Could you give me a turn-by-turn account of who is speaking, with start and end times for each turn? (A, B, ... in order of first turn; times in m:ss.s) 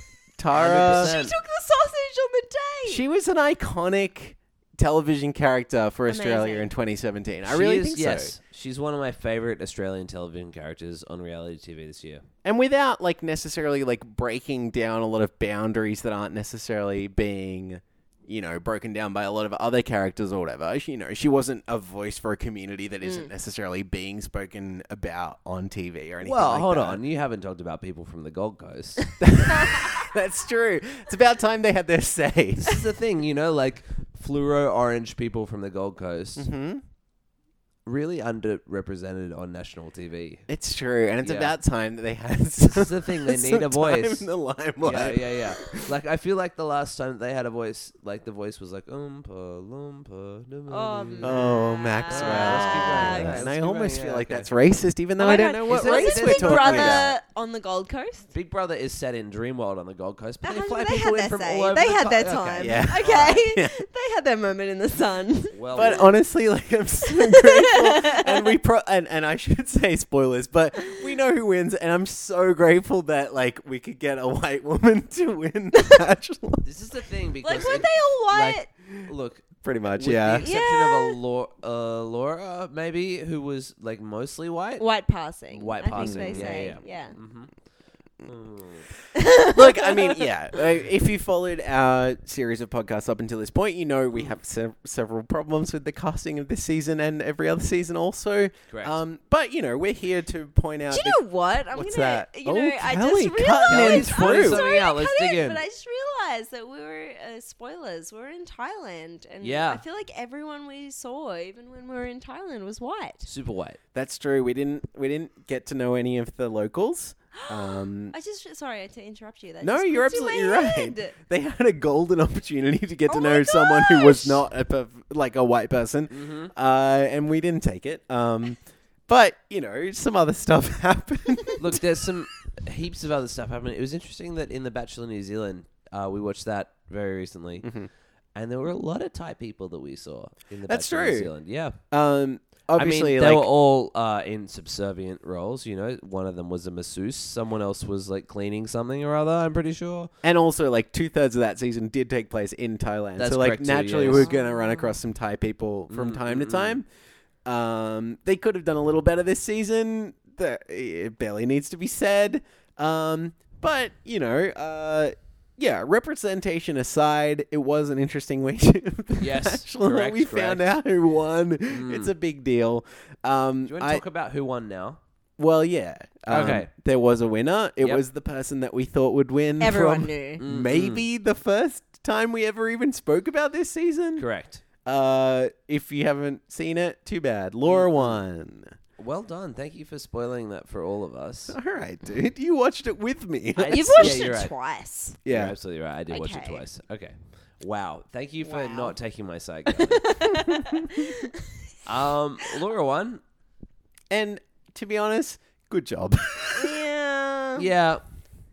0:00.4-0:01.1 A
0:00.5-0:01.4 B
0:00.8-0:03.0 C
0:02.9-0:08.4 A
0:06.1-0:06.7 C
0:07.5-0:12.2 B
0:12.4-0:27.0 A
0:23.0-0:23.3 C
0:26.2-0:29.1 B
0:29.2-0:32.8 A
0:32.6-0:36.5 B
0:36.4-0:36.8 A
0:37.8-0:40.4 B
0:40.5-0:45.9 A
0:41.2-0:41.6 B
0:42.6-0:44.3 B
0:44.8-0:51.5 B
0:50.7-0:53.5 C
0:51.2-0:57.1 A
0:52.1-0:54.5 B
0:55.2-0:58.3 C
0:55.6-0:57.2 B
0:58.3-1:03.4 B
1:00.4-1:06.0 C
1:02.6-1:03.8 A
1:05.5-1:06.1 B
1:05.7-1:16.7 A
1:07.2-1:08.3 C
1:16.6-1:24.8 B
1:17.4-1:18.7 C
1:19.6-1:20.4 A
1:20.4-1:21.2 C
1:24.8-1:27.2 C
1:25.5-1:27.5 B
1:26.0-1:26.8 A
1:28.2-1:28.9 B
1:29.2-1:30.3 C
1:29.5-1:44.6 A
1:38.7-1:39.0 B
1:40.9-1:53.3 C
1:43.7-1:45.6 B
1:49.4-1:49.8 B
1:53.3-1:53.8 B
1:53.9-1:58.2 A
1:57.3-2:01.2 C
1:59.6-2:11.9 A
2:03.1-2:04.4 C
2:06.1-2:06.5 B
2:11.6-2:17.7 B
2:17.6-2:17.9 A
2:18.4-2:21.8 B
2:20.7-2:21.3 A
2:21.9-2:23.5 A
2:22.8-2:30.1 B
2:30.2-2:36.9 A
2:33.2-2:34.3 B
2:34.1-2:35.0 C
2:35.9-2:36.8 B
2:37.4-2:54.0 A
2:49.2-2:50.7 B
2:51.7-2:52.1 B
2:53.7-2:55.0 B
2:55.4-3:04.3 A
2:56.3-2:56.7 B
2:59.6-3:00.4 C
3:00.4-3:01.1 B
3:04.2-3:04.6 B
3:04.8-3:08.8 A
3:07.6-3:08.2 B
3:09.0-3:11.6 B
3:11.5-3:14.3 A
3:13.6-3:14.5 B
3:13.7-3:15.2 C
3:15.2-3:15.6 A
3:15.3-3:20.2 B
3:16.1-3:16.6 C
3:18.4-3:18.9 C
3:19.7-3:21.4 C
3:21.9-3:23.2 B
3:24.1-3:26.8 A
3:26.6-3:27.7 C
3:27.6-3:28.0 B